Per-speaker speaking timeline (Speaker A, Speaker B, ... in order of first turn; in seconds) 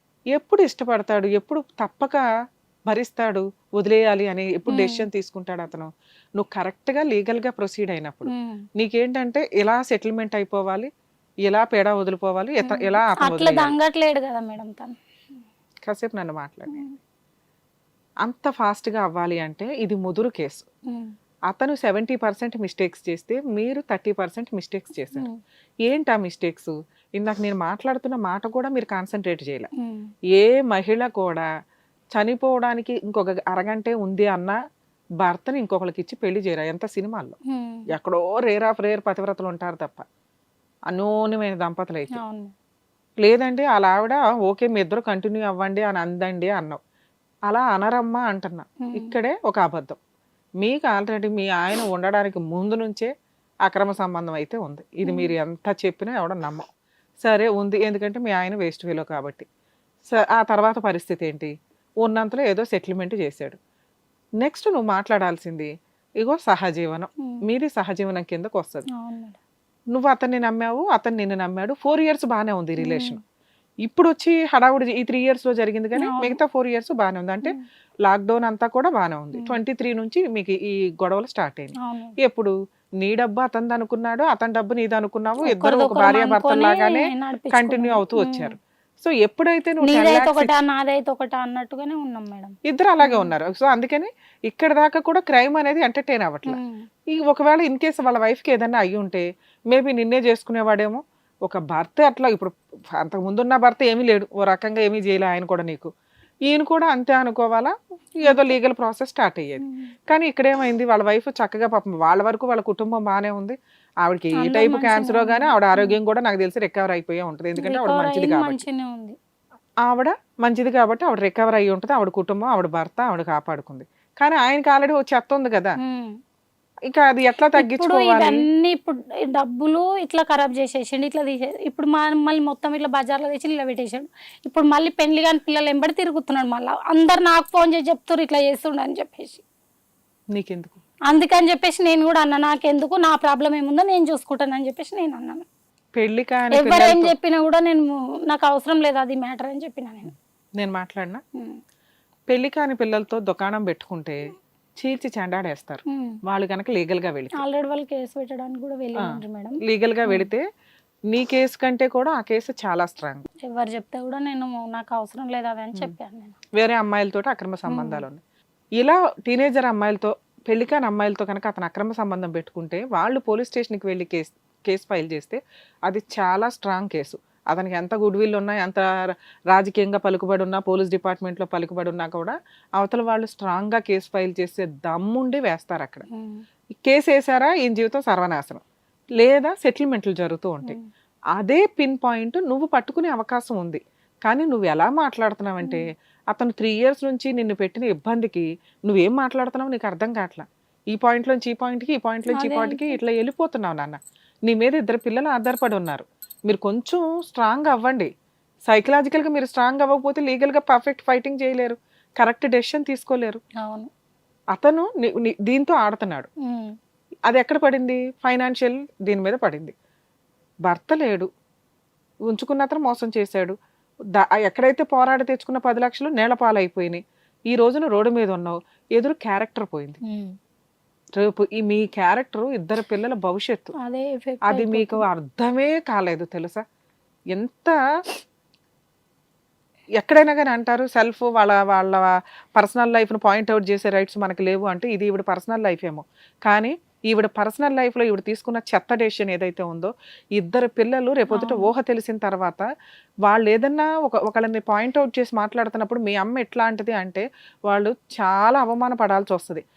Speaker A: 0.3-2.2, 2.9-10.9, 11.4-13.7, 15.9-16.9, 18.2-20.7, 21.5-25.3, 25.8-29.7, 30.4-31.5, 32.1-34.6, 35.2-37.4, 37.9-40.0, 40.9-42.1, 43.2-46.8, 47.5-50.0, 50.6-53.1, 53.7-56.6, 57.2-59.5, 60.1-63.6, 64.4-65.7, 66.2-68.8, 69.9-73.2, 73.9-90.5, 92.7-96.6, 97.1-105.9, 106.5-118.6, 119.9-125.8, 126.9-128.4, 140.3-140.8, 146.0-147.1, 150.6-151.2, 152.3-157.4, 159.1-160.4, 161.1-163.2, 166.6-168.2, 168.8-186.1, 186.8-188.6, 189.2-190.8, 191.4-208.1, 208.7-213.4, 214.5-216.3, 217.3-219.7, 220.7-221.3, 222.3-223.6, 224.2-230.0, 231.2-233.7, 234.5-236.6, 237.3-237.8, 240.0-252.7, 253.2-259.6
Speaker B: 4.7-5.0, 8.3-8.6, 12.6-15.0, 25.1-25.4, 29.8-30.1, 37.5-37.8, 42.1-42.5, 55.0-55.3, 68.9-69.4, 72.8-73.2, 76.0-76.4, 81.8-82.1, 85.5-88.5, 89.8-93.3, 96.5-96.8, 108.2-108.5, 109.6-109.9, 114.4-116.0, 117.6-119.2, 125.8-126.2, 127.6-139.4, 141.1-145.4, 146.6-150.1, 157.3-160.3, 163.5-166.4, 167.7-168.1, 186.1-186.4, 202.3-203.0, 213.6-213.9, 216.5-216.8, 230.0-230.3, 233.8-235.1, 251.3-251.7